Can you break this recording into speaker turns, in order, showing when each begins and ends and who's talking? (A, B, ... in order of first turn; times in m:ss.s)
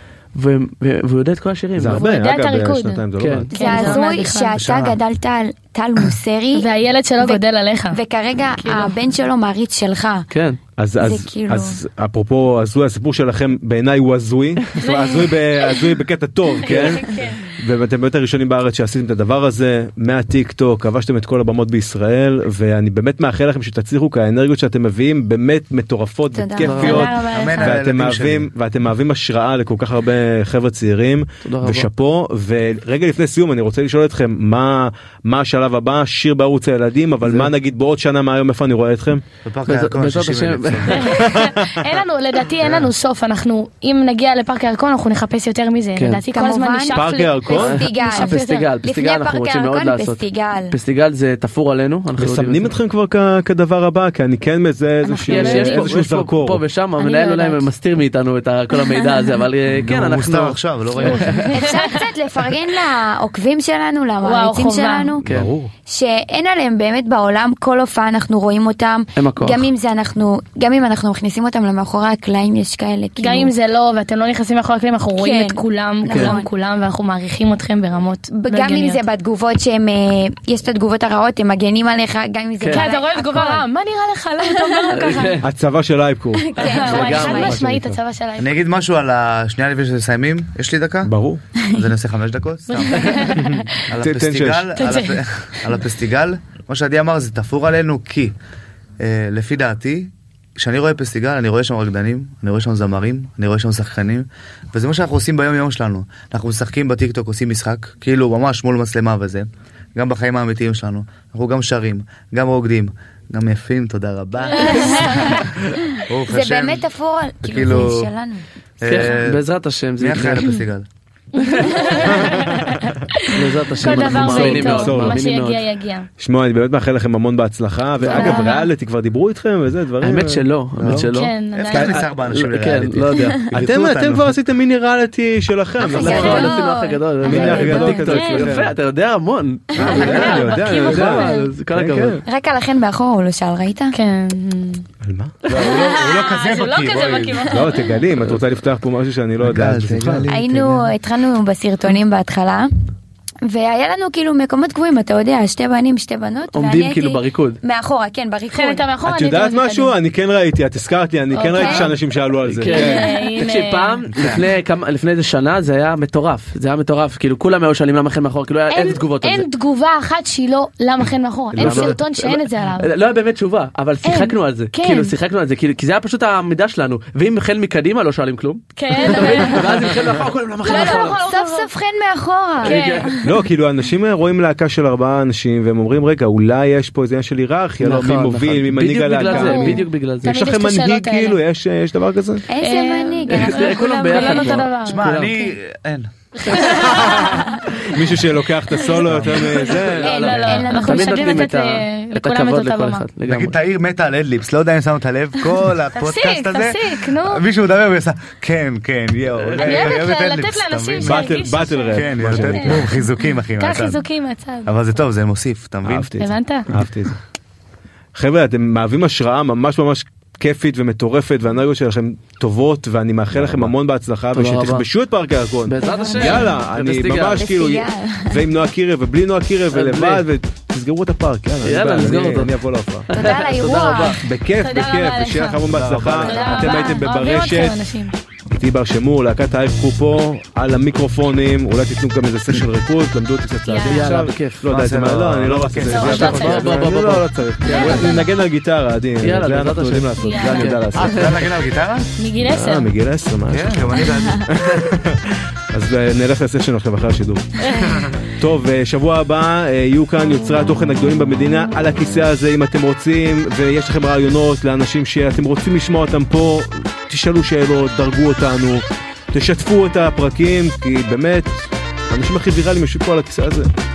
0:00.3-0:02.0 A
0:01.8-0:03.9 B
0:01.9-0:04.6 C
0:03.2-0:03.5 A
0:03.5-0:10.3 D
0:04.5-0:05.0 E
0:06.5-0:08.0 C
0:08.6-0:08.9 C
0:10.3-0:10.6 A
0:10.8-0:39.2 B
0:11.0-0:11.8 D
0:14.8-0:15.8 C
0:16.6-0:17.3 A
0:16.6-0:17.4 C
0:26.3-0:27.1 D
0:26.6-0:27.1 A
0:26.8-0:27.8 C
0:27.2-0:28.5 E
0:31.4-0:31.9 A
0:37.2-0:37.5 A
0:39.4-0:41.2 E
0:39.6-0:41.1 A
0:40.9-0:48.7 C
0:41.1-0:41.8 B
0:46.0-0:46.2 A
0:46.3-0:50.8 D
0:46.9-0:47.8 B
0:47.5-0:52.7 A
0:52.2-0:56.6 B
0:55.0-0:55.9 C
0:55.2-1:01.5 A
0:57.0-0:57.6 C
0:59.7-1:01.5 E
1:01.1-1:02.0 C
1:01.5-1:05.2 D
1:04.2-1:05.2 C
1:05.2-1:05.7 B
1:05.2-1:05.5 A
1:05.8-1:13.5 D
1:09.2-1:09.6 A
1:13.2-1:19.0 C
1:15.1-1:16.5 D
1:16.1-1:16.3 A
1:18.3-1:23.6 D
1:22.6-1:22.9 A
1:22.7-1:25.4 C
1:24.5-1:24.9 D
1:24.9-1:25.4 A
1:25.4-1:26.4 B
1:26.4-1:27.6 D
1:26.6-1:28.5 C
1:26.7-1:27.6 A
1:27.1-1:28.0 B
1:28.4-1:38.3 E
1:31.0-1:31.4 B
1:32.8-1:33.8 C
1:34.0-1:34.9 B
1:34.8-1:35.2 C
1:39.0-1:56.8 E
1:54.5-1:55.4 D
1:54.6-1:55.5 C
1:56.3-1:58.4 D
1:57.4-1:58.1 E
1:58.8-1:59.4 E
1:58.8-2:00.6 A
2:00.0-2:00.8 E
2:01.3-2:06.1 C
2:01.4-2:02.1 A
2:02.0-2:02.7 B
2:03.3-2:05.7 A
2:03.8-2:05.2 B
2:06.2-2:10.4 B
2:08.1-2:08.7 C
2:08.1-2:08.4 A
2:08.1-2:08.6 D
2:10.0-2:13.5 A
2:10.8-2:14.3 E
2:11.1-2:12.0 C
2:13.5-2:16.6 B
2:15.8-2:17.4 D
2:15.9-2:22.2 A
2:16.0-2:16.5 C
2:17.2-2:18.7 B
2:17.3-2:18.5 C
2:17.4-2:17.8 E
2:19.8-2:20.6 E
2:19.8-2:22.2 B
2:19.8-2:21.5 C
2:22.2-2:24.0 D
2:23.9-2:24.8 C
2:25.0-2:25.4 B
2:25.4-2:27.5 E
2:25.5-2:28.0 C
2:27.4-2:30.3 B
2:29.4-2:30.9 E
2:30.3-2:32.7 D
2:33.4-2:38.8 D
2:36.5-2:37.6 A
2:38.5-2:39.9 C
2:39.0-2:43.2 B
2:41.3-2:41.9 D
2:41.4-2:41.9 C
2:42.4-2:49.5 A
2:42.6-2:44.0 C
2:44.1-2:44.4 E
2:48.7-2:52.9 C
2:51.5-2:52.0 B
2:51.6-3:01.2 A
2:54.0-2:55.1 C
2:58.8-3:00.0 C
2:59.2-2:59.8 D
3:00.6-3:01.7 C
3:00.6-3:03.2 D
3:02.6-3:03.1 A
3:02.6-3:03.2 C
3:03.2-3:12.4 B
3:07.8-3:10.3 A
3:09.2-3:11.4 C
3:12.5-3:14.6 D
3:12.6-3:15.1 C
3:13.3-3:15.4 A
3:14.8-3:16.1 E
3:16.4-3:17.5 C
3:16.4-3:20.6 B
3:19.0-3:19.4 E
3:19.4-3:23.1 C
3:19.5-3:23.6 A
3:20.3-3:21.5 D
3:23.2-3:34.0 E
3:25.9-3:27.4 C
3:29.4-3:30.0 A
3:29.6-3:33.0 C
3:31.0-3:32.9 B
3:33.6-3:34.7 C
3:34.6-3:36.2 E
3:35.8-3:37.2 B
3:36.2-3:36.7 C
3:38.1-3:53.1 B
3:44.3-3:44.8 A
3:45.7-3:47.4 A
3:45.8-3:46.5 D
3:47.3-3:48.4 D
3:49.7-3:50.2 A
3:51.6-3:52.6 A
3:53.1-3:54.2 A
3:53.1-3:54.2 D
3:54.2-3:57.8 B
3:54.6-3:55.6 C
3:55.7-3:56.9 E
3:56.2-3:58.1 C
3:58.5-4:11.5 B
4:03.7-4:04.1 C
4:03.8-4:04.7 A
4:04.7-4:06.7 E
4:05.9-4:06.7 C
4:05.9-4:08.1 A
4:07.6-4:08.3 C
4:09.2-4:11.4 A
4:10.2-4:10.8 C
4:10.9-4:12.1 E
4:12.2-4:12.9 C
4:12.4-4:33.7 B
4:13.5-4:14.9 E
4:17.6-4:18.1 C